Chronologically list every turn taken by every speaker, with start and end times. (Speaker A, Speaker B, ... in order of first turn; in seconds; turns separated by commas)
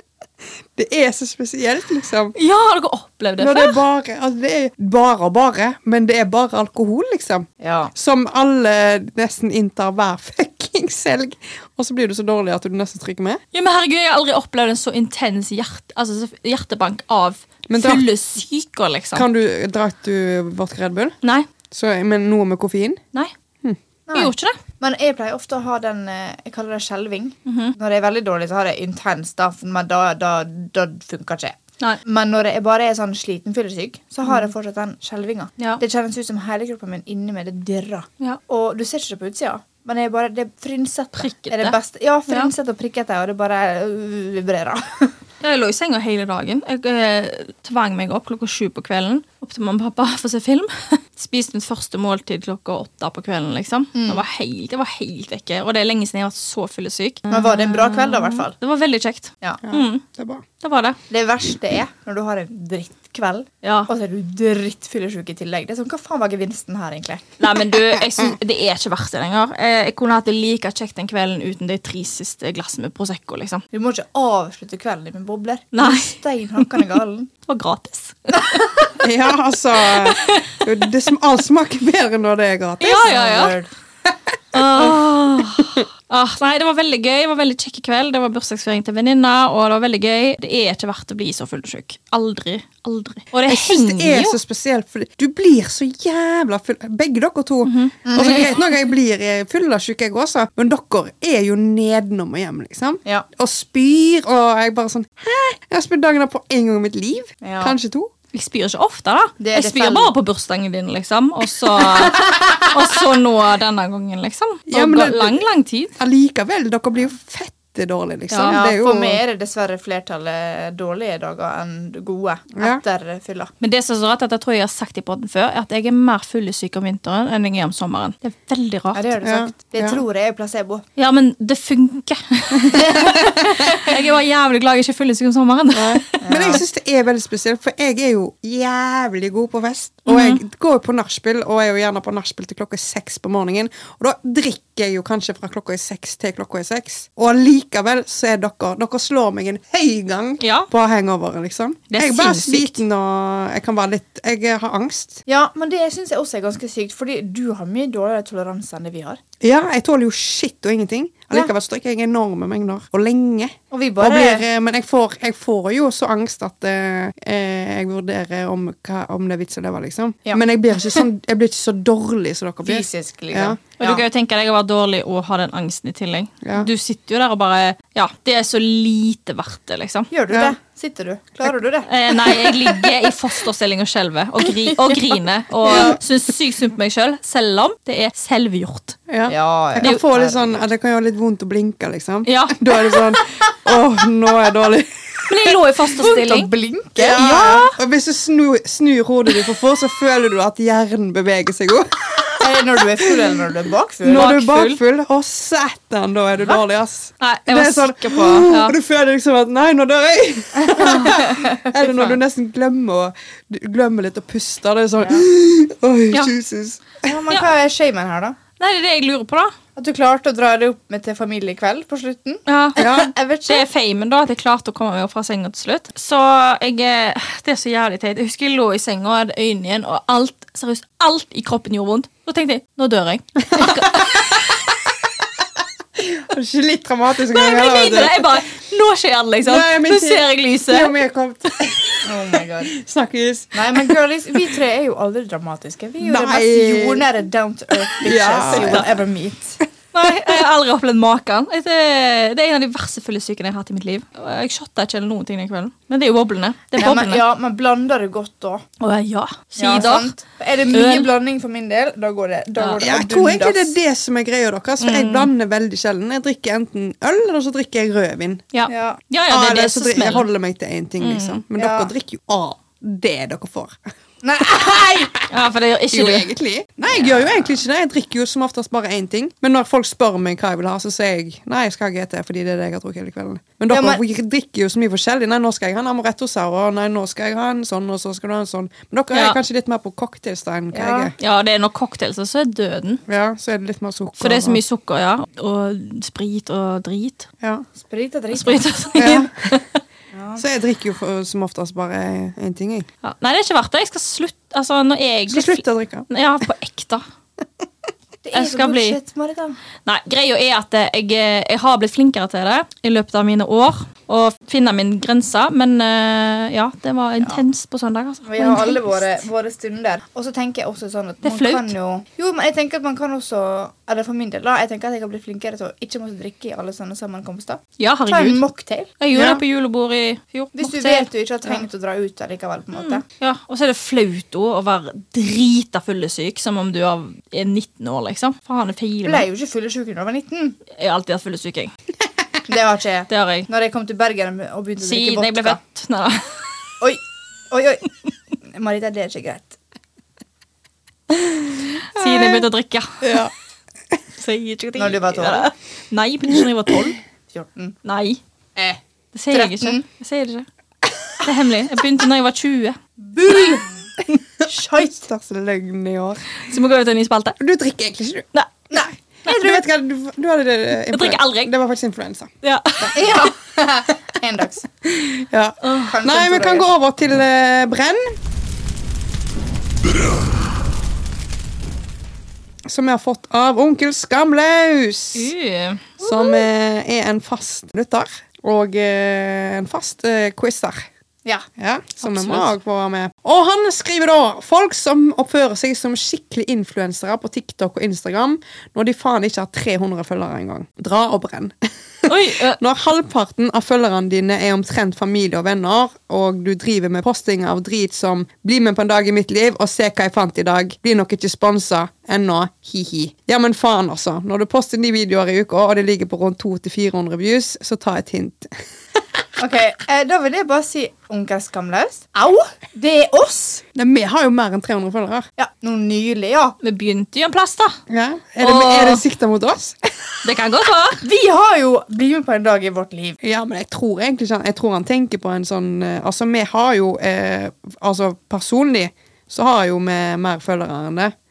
Speaker A: 0.8-2.3, Speaker B: 2.4-3.8, Speaker A: 3.4-13.4, Speaker C: 7.6-7.9, Speaker B: 13.5-19.3, Speaker A: 17.7-18.1, Speaker A: 19.1-21.1, Speaker A: 21.7-23.0, Speaker C: 24.1-45.1, Speaker B: 24.1-24.6, Speaker B: 27.4-27.7, Speaker B: 41.2-41.8, Speaker B: 45.4-60.0, Speaker C: 53.9-54.2, Speaker C: 57.3-58.5, Speaker A: 59.6-60.4, Speaker B: 60.6-61.0, Speaker C: 61.1-67.4, Speaker B: 63.6-63.9, Speaker B: 67.4-73.6, Speaker C: 73.7-77.3, Speaker B: 75.7-76.6, Speaker B: 77.5-78.9, Speaker A: 79.0-83.1, Speaker B: 79.9-80.6, Speaker B: 82.8-83.6, Speaker C: 82.9-83.7, Speaker B: 84.5-94.4, Speaker A: 84.6-84.9, Speaker A: 93.5-108.1, Speaker B: 97.6-98.5, Speaker C: 98.0-98.5, Speaker C: 107.4-107.7, Speaker B: 108.3-115.9, Speaker C: 109.4-110.1, Speaker A: 114.7-115.5, Speaker A: 116.0-119.2, Speaker B: 118.3-118.6, Speaker C: 118.5-123.5, Speaker A: 122.5-122.8, Speaker B: 123.6-129.1, Speaker C: 128.9-130.8, Speaker A: 129.2-130.0, Speaker B: 130.9-136.6, Speaker C: 132.7-133.7, Speaker A: 135.7-155.2, Speaker C: 136.2-136.6, Speaker B: 140.1-140.4, Speaker B: 150.4-150.7, Speaker B: 151.9-152.8, Speaker C: 155.3-159.2, Speaker A: 159.4-173.6, Speaker C: 163.7-164.4, Speaker C: 170.2-171.0, Speaker C: 172.6-174.0, Speaker B: 173.8-180.1, Speaker A: 176.4-176.7, Speaker C: 180.1-182.6, Speaker A: 180.3-180.5, Speaker B: 181.9-189.0, Speaker A: 185.7-186.0, Speaker A: 189.1-195.5, Speaker C: 189.3-190.6, Speaker B: 192.2-193.1, Speaker B: 195.3-196.5, Speaker C: 195.9-197.2, Speaker A: 197.0-203.1, Speaker B: 197.1-197.8, Speaker C: 202.4-204.3, Speaker A: 204.0-217.0, Speaker B: 204.1-204.8, Speaker B: 207.2-208.8, Speaker C: 210.6-211.7, Speaker C: 217.0-218.4, Speaker B: 218.6-219.5, Speaker C: 219.8-223.7, Speaker B: 222.5-222.9, Speaker A: 222.8-223.1, Speaker B: 223.4-234.3, Speaker A: 233.5-234.6, Speaker A: 235.9-238.4, Speaker B: 237.3-240.9, Speaker A: 239.4-244.0, Speaker C: 242.0-242.7, Speaker C: 243.5-249.6, Speaker A: 246.0-247.1, Speaker A: 247.9-248.9, Speaker B: 248.5-248.9, Speaker B: 249.9-257.2, Speaker C: 256.8-258.6, Speaker B: 258.8-260.1, Speaker C: 259.6-263.7, Speaker B: 260.7-261.1, Speaker A: 262.8-268.4, Speaker B: 264.8-265.3, Speaker B: 268.5-270.2, Speaker C: 268.7-269.0, Speaker A: 269.3-273.8, Speaker B: 271.0-271.4, Speaker C: 271.6-271.9, Speaker C: 274.2-275.1, Speaker A: 274.4-275.2, Speaker B: 275.3-276.3, Speaker A: 275.9-291.1, Speaker C: 283.7-284.0, Speaker B: 289.1-289.4, Speaker C: 290.7-291.1, Speaker B: 291.2-293.0, Speaker A: 293.1-294.6, Speaker B: 294.2-297.3, Speaker C: 297.8-298.6, Speaker B: 298.3-299.8, Speaker A: 298.9-299.5, Speaker C: 300.1-300.4, Speaker A: 300.4-302.9, Speaker B: 303.0-307.0, Speaker A: 305.3-306.1, Speaker C: 308.2-309.6, Speaker B: 308.3-309.0, Speaker B: 309.8-318.9, Speaker C: 318.2-328.9, Speaker B: 321.2-321.7, Speaker B: 327.8-328.4, Speaker B: 329.0-331.1, Speaker A: 329.1-329.4, Speaker C: 330.6-333.0, Speaker B: 332.7-339.3, Speaker C: 339.0-340.6, Speaker B: 340.7-341.7, Speaker C: 342.5-345.6, Speaker B: 343.1-343.5, Speaker B: 344.8-346.4, Speaker C: 346.8-347.9, Speaker C: 348.5-349.6, Speaker B: 351.7-353.2, Speaker A: 352.0-352.3, Speaker A: 353.0-353.3, Speaker B: 354.2-357.0, Speaker C: 354.8-355.5, Speaker C: 357.3-357.8, Speaker B: 357.8-358.2, Speaker B: 359.1-360.4, Speaker C: 359.3-359.8, Speaker B: 361.2-362.8, Speaker C: 363.0-363.7, Speaker C: 364.4-365.1, Speaker A: 364.8-366.2, Speaker B: 366.4-367.4, Speaker A: 367.4-368.3, Speaker C: 368.7-369.6, Speaker A: 369.2-372.9, Speaker B: 370.9-371.5, Speaker B: 372.4-373.2, Speaker C: 372.9-374.6, Speaker A: 374.8-378.2, Speaker B: 375.6-375.9, Speaker C: 375.8-376.7, Speaker A: 382.6-385.3, Speaker B: 385.1-385.9, Speaker A: 386.0-390.9, Speaker A: 391.6-418.5, Speaker B: 392.0-392.5, Speaker B: 402.1-402.6, Speaker C: 419.4-423.6, Speaker A: 423.7-425.3, Speaker C: 425.4-426.6, Speaker B: 426.6-427.8, Speaker A: 427.9-430.2, Speaker B: 428.4-429.0, Speaker B: 430.2-431.0, Speaker C: 431.0-433.2, Speaker A: 433.2-441.1